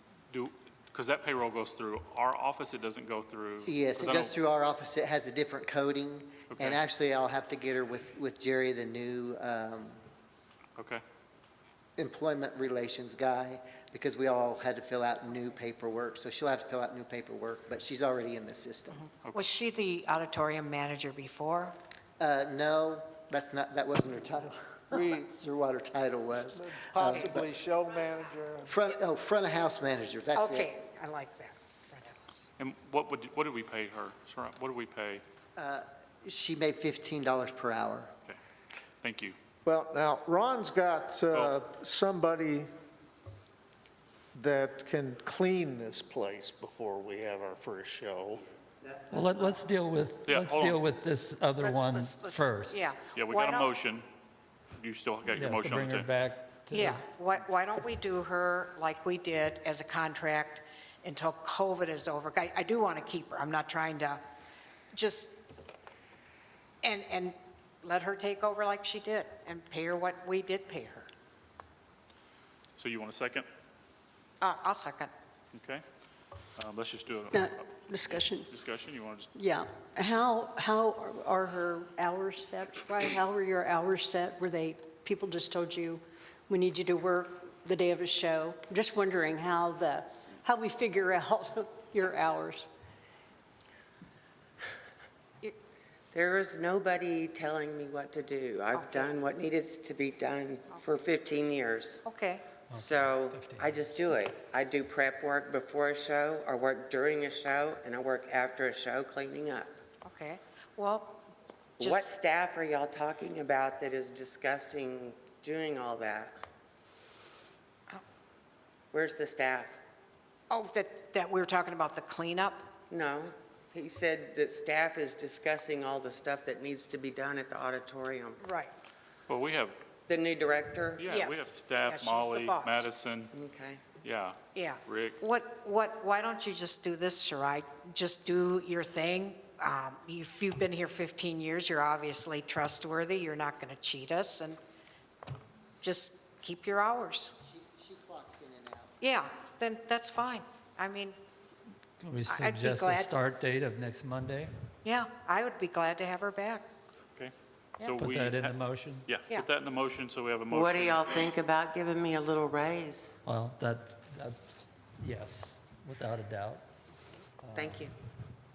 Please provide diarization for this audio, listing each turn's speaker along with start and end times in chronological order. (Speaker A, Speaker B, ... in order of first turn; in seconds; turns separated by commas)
Speaker A: 0.3-4.3, Speaker B: 3.6-10.0, Speaker A: 6.5-6.8, Speaker A: 10.8-11.0, Speaker B: 12.0-19.0, Speaker C: 19.0-21.8, Speaker B: 22.2-27.5, Speaker D: 24.9-25.2, Speaker D: 26.5-28.7, Speaker C: 27.1-27.3, Speaker B: 28.6-30.7, Speaker C: 30.3-32.5, Speaker A: 32.6-35.2, Speaker B: 35.6-38.1, Speaker A: 39.0-39.4, Speaker D: 39.6-42.7, Speaker D: 44.3-48.4, Speaker E: 49.1-52.8, Speaker A: 50.2-50.8, Speaker C: 51.6-53.7, Speaker A: 53.1-54.1, Speaker A: 54.8-56.1, Speaker E: 55.3-57.0, Speaker C: 56.7-64.2, Speaker C: 64.9-65.5, Speaker C: 66.8-71.1, Speaker A: 72.8-73.5, Speaker C: 74.4-75.1, Speaker A: 75.5-75.8, Speaker A: 76.5-79.3, Speaker F: 77.3-78.5, Speaker F: 79.3-92.7, Speaker G: 96.1-102.0, Speaker C: 98.7-99.1, Speaker C: 102.0-102.4, Speaker E: 102.7-104.0, Speaker G: 102.7-109.7, Speaker C: 110.0-111.2, Speaker G: 111.8-116.4, Speaker C: 111.8-112.1, Speaker G: 118.9-119.8, Speaker C: 120.5-122.7, Speaker G: 122.9-128.4, Speaker C: 128.4-128.7, Speaker A: 129.3-129.8, Speaker G: 130.1-131.1, Speaker A: 131.0-133.3, Speaker C: 131.1-132.9, Speaker G: 133.3-133.8, Speaker A: 134.0-135.2, Speaker C: 134.5-144.6, Speaker C: 145.8-147.3, Speaker B: 147.4-148.9, Speaker C: 149.0-151.2, Speaker E: 152.0-154.5, Speaker C: 152.3-153.2, Speaker C: 154.8-156.7, Speaker A: 157.2-161.1, Speaker E: 158.0-159.1, Speaker G: 160.5-163.1, Speaker E: 163.2-166.6, Speaker E: 167.4-167.9, Speaker G: 167.5-167.9